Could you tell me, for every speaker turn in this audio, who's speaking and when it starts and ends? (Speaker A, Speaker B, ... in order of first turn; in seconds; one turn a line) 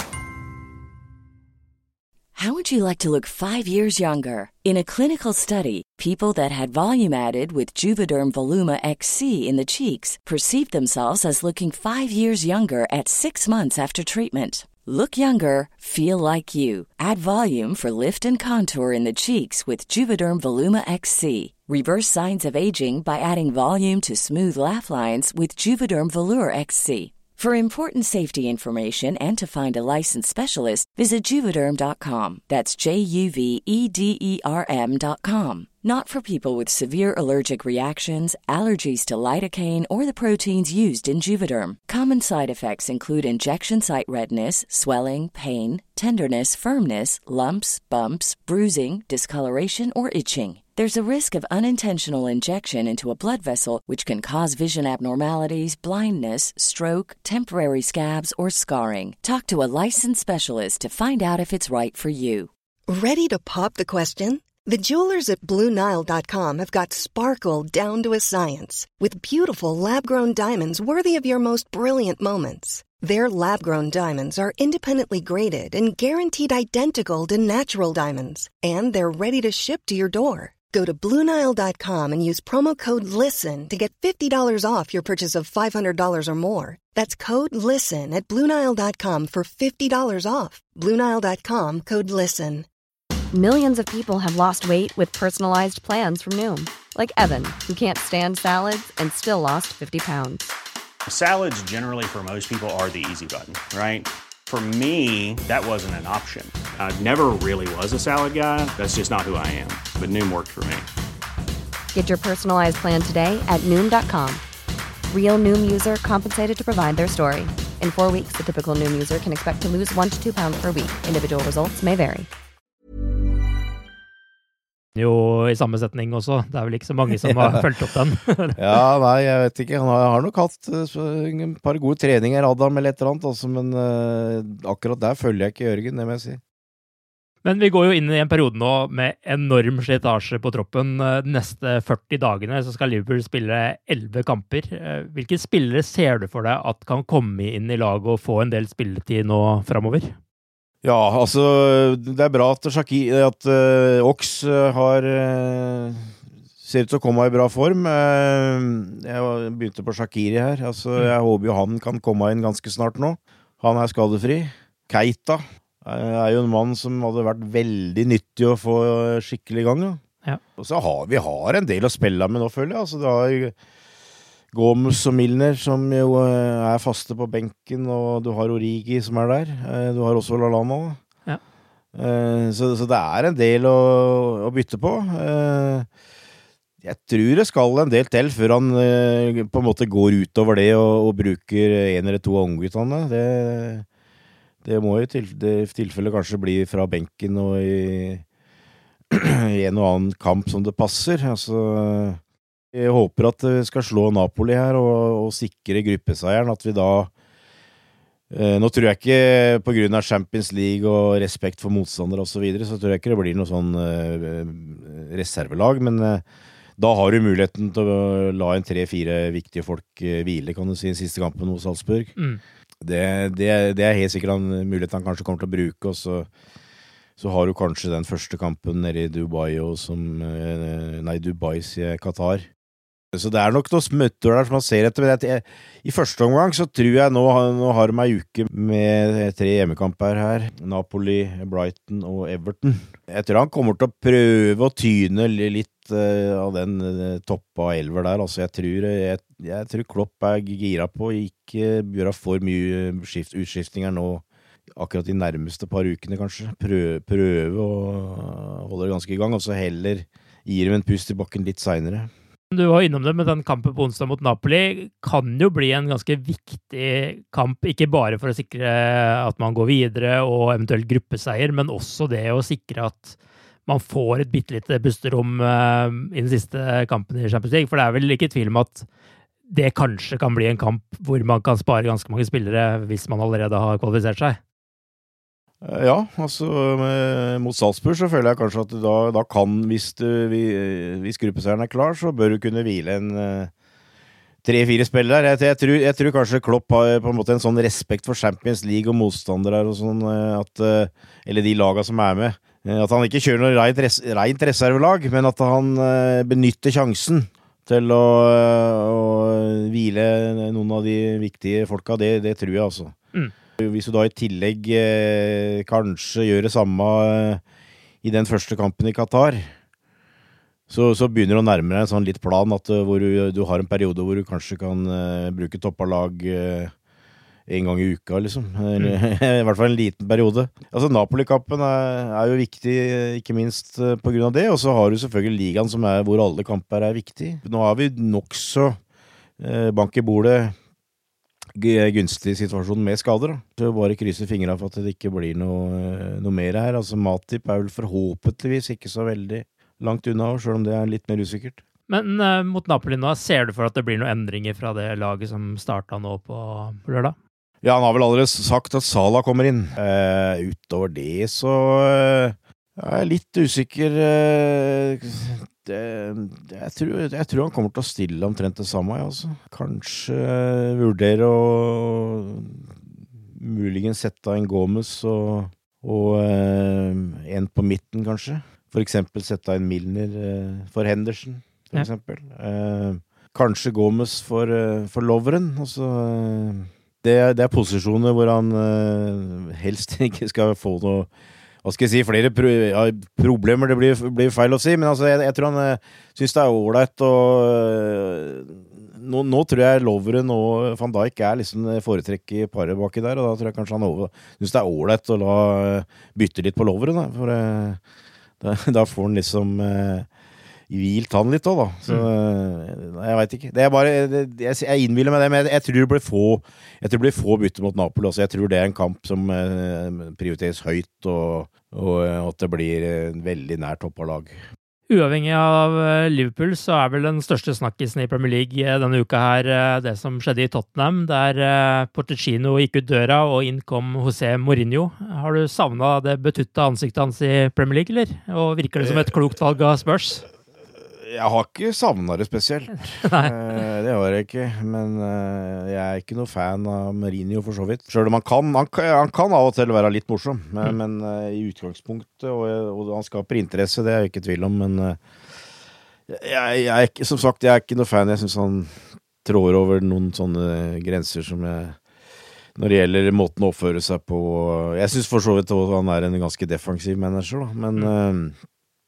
Speaker A: 2.4-62.5
Speaker B: 62.9-92.7
Speaker C: 93.3-100.5
Speaker D: 101.1-110.9
Speaker C: 111.9-114.4
Speaker C: 115.1-122.3
Speaker E: 125.0-128.6
Speaker F: 127.2-127.7
Speaker F: 128.6-136.4
Speaker E: 137.4-150.2
Speaker F: 150.8-170.0
Speaker F: 170.6-173.6
Speaker F: 174.5-181.0
Speaker F: 181.9-185.9
Speaker F: 186.8-193.9
Speaker F: 194.6-198.2
Speaker F: 199.1-202.2
Speaker F: 202.7-207.1
Speaker F: 208.3-216.2
Speaker F: 216.8-222.1
Speaker F: 222.8-226.3
Speaker F: 227.2-232.5
Speaker F: 233.1-262.1
Speaker E: 262.5-278.9
Speaker E: 279.5-284.4
Speaker F: 285.6-293.5
Speaker F: 294.4-313.0
Speaker F: 313.6-317.4
Speaker F: 318.0-319.5
Speaker F: 320.7-326.7
Speaker F: 327.5-338.8
Speaker F: 339.4-340.6
Speaker F: 341.6-351.6
Speaker E: 351.9-357.2
Speaker F: 357.6-391.1
Speaker F: 391.6-407.8
Speaker F: 408.4-410.1
Speaker F: 410.7-424.4
Speaker E: 424.9-440.3
Speaker F: 438.8-439.1
Speaker F: 440.9-455.0
Speaker E: 443.0-443.3
Speaker F: 456.1-461.8
Speaker F: 462.6-468.4